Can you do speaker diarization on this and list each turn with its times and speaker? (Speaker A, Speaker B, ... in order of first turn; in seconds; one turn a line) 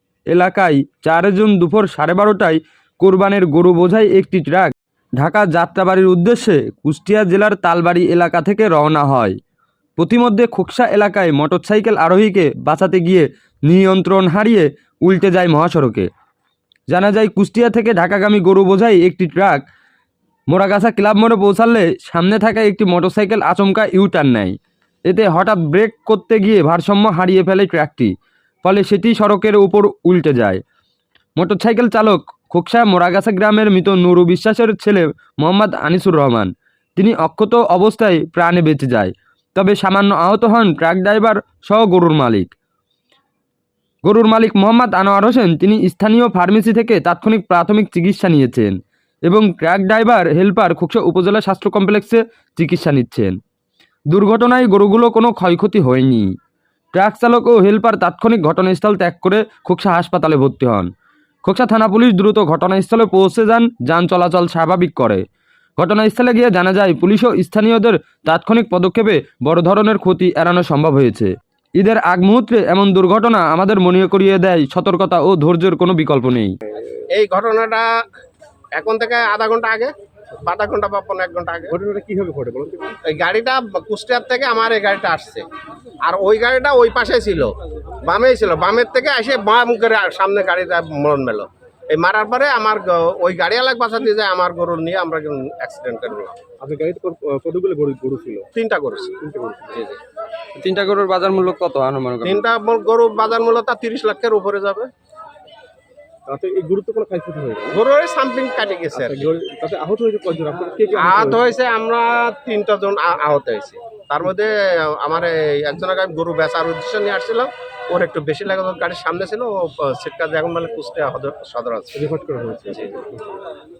Speaker A: 0.3-9.4
Speaker A: 10.0-16.1
Speaker A: 16.9-19.6
Speaker A: 20.5-28.1
Speaker A: 28.6-30.6
Speaker A: 31.4-42.5
Speaker A: 44.0-48.8
Speaker A: 49.3-53.4
Speaker A: 54.1-56.3
Speaker A: 56.9-60.9
Speaker A: 61.5-65.2
Speaker A: 65.8-76.5
Speaker B: 77.1-77.9
Speaker B: 78.8-79.9
Speaker B: 80.4-81.7
Speaker C: 81.7-83.0
Speaker B: 83.1-85.5
Speaker B: 86.0-87.5
Speaker B: 88.0-96.4
Speaker C: 96.6-98.5
Speaker B: 98.5-99.2
Speaker C: 99.2-99.8
Speaker A: 100.5-102.4
Speaker B: 102.2-104.9
Speaker C: 106.3-107.8
Speaker B: 107.7-109.2
Speaker C: 108.9-111.5
Speaker B: 111.0-122.0
Speaker C: 122.0-123.0